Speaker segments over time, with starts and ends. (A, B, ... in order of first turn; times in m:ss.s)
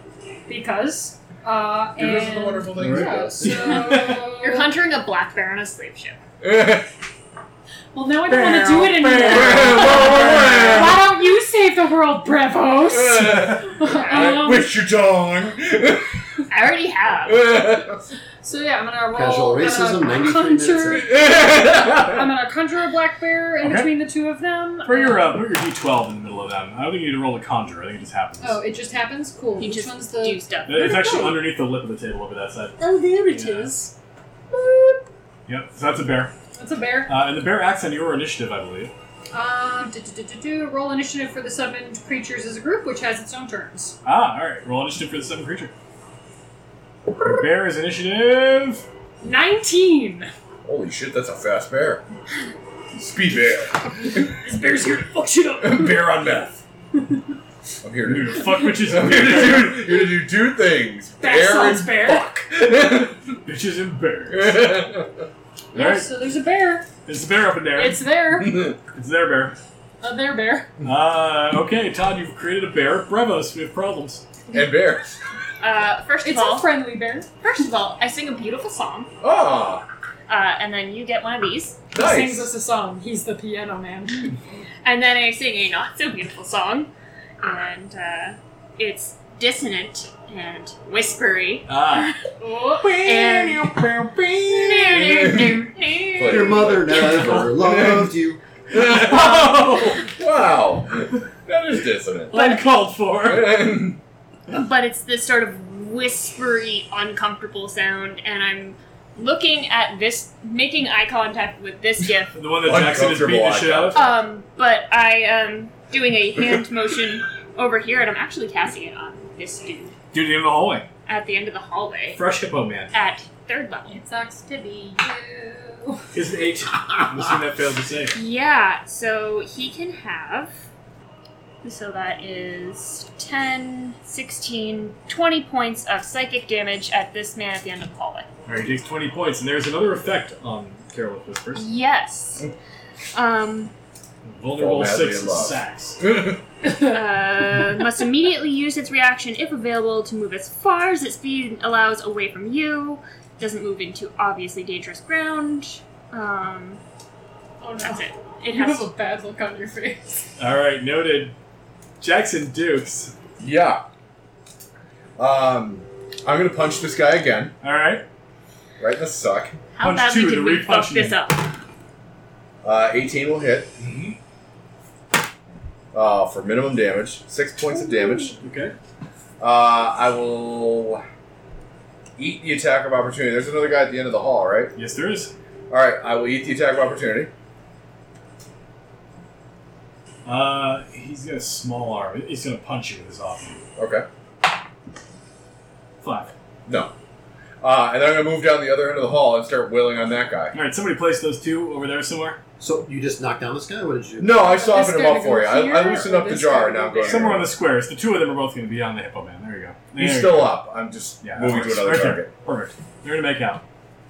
0:00.5-0:04.7 A
0:02.0-0:04.2 B
0:02.8-0:04.2 C
0:03.6-0:06.2 D
0:06.4-0:06.9 B
0:07.9-0:14.7 A
0:08.3-0:11.1 B
0:12.7-0:16.2 B
0:13.9-0:14.4 D
0:16.5-0:17.4 D
0:17.3-0:18.0 B
0:18.4-0:25.4 A
0:19.1-0:21.1 E
0:20.9-0:22.3 B
0:23.6-0:23.9 C
0:24.8-0:28.6 C
0:28.4-0:31.5 A
0:29.6-0:31.1 D
0:30.7-0:33.7 C
0:32.8-0:33.9 A
0:34.5-0:35.0 A
0:35.5-0:36.3 C
0:36.6-0:37.1 A
0:37.1-0:38.9 C
0:39.3-0:44.0 A
0:44.0-0:45.7 C
0:47.2-0:48.9 C
0:49.2-0:50.3 A
0:50.6-0:52.0 B
0:53.0-0:54.4 B
0:54.0-0:56.2 A
0:55.6-0:56.6 B
0:57.0-0:57.2 A
0:57.8-1:03.2 B
0:58.0-0:59.8 C
1:01.2-1:02.5 A
1:03.4-1:04.7 C
1:04.3-1:05.2 B
1:05.7-1:06.9 A
1:05.7-1:06.1 C
1:07.0-1:09.6 C
1:07.7-1:08.7 A
1:10.0-1:10.7 A
1:10.8-1:14.2 C
1:14.5-1:15.1 B
1:15.6-1:16.8 D
1:16.2-1:17.3 A
1:17.4-1:19.1 D
1:19.2-1:19.8 B
1:20.3-1:21.8 D
1:21.9-1:24.4 A
1:21.9-1:22.5 B
1:24.8-1:32.2 D
1:31.7-1:32.2 C
1:32.4-1:33.4 A
1:33.0-1:33.8 D
1:33.3-1:35.6 C
1:34.0-1:38.1 B
1:34.5-1:36.7 D
1:36.2-1:38.4 E
1:37.2-1:37.5 C
1:38.7-1:42.3 B
1:38.7-1:40.0 C
1:42.3-1:43.8 C
1:42.3-1:42.6 D
1:43.2-1:44.0 B
1:44.5-1:52.4 D
1:52.4-1:54.1 C
1:52.6-1:54.2 B
1:53.9-1:59.9 D
2:00.1-2:00.9 C
2:01.1-2:02.2 D
2:02.2-2:02.9 C
2:02.9-2:04.0 D
2:03.9-2:06.1 A
2:06.1-2:08.2 C
2:08.1-2:10.5 D
2:11.6-2:18.3 D
2:18.5-2:21.7 C
2:21.5-2:22.5 D
2:23.1-2:23.7 D
2:24.2-2:26.0 C
2:24.6-2:26.4 B
2:26.6-2:36.8 D
2:37.6-2:40.3 A
2:37.8-2:38.9 D
2:40.4-2:41.4 C
2:42.0-2:43.2 C
2:43.4-2:43.8 B
2:45.2-2:47.6 B
2:47.6-2:48.0 C
2:48.8-2:49.6 B
2:49.8-2:51.5 D
2:49.8-2:51.2 C
2:52.6-2:53.7 B
2:53.8-2:54.2 C
2:55.9-2:58.4 B
2:57.7-2:58.4 A
2:58.4-2:58.7 C
2:59.4-3:01.0 B
3:02.2-3:04.7 B
3:04.8-3:05.3 C
3:05.7-3:07.3 B
3:10.3-3:13.6 C
3:13.8-3:14.1 B
3:16.0-3:16.3 C
3:16.7-3:16.9 B
3:17.6-3:20.6 B
3:20.5-3:22.4 C
3:22.6-3:24.4 E
3:24.2-3:27.5 B
3:24.4-3:27.4 A
3:27.0-3:30.6 C
3:30.0-3:32.3 B
3:31.2-3:33.6 C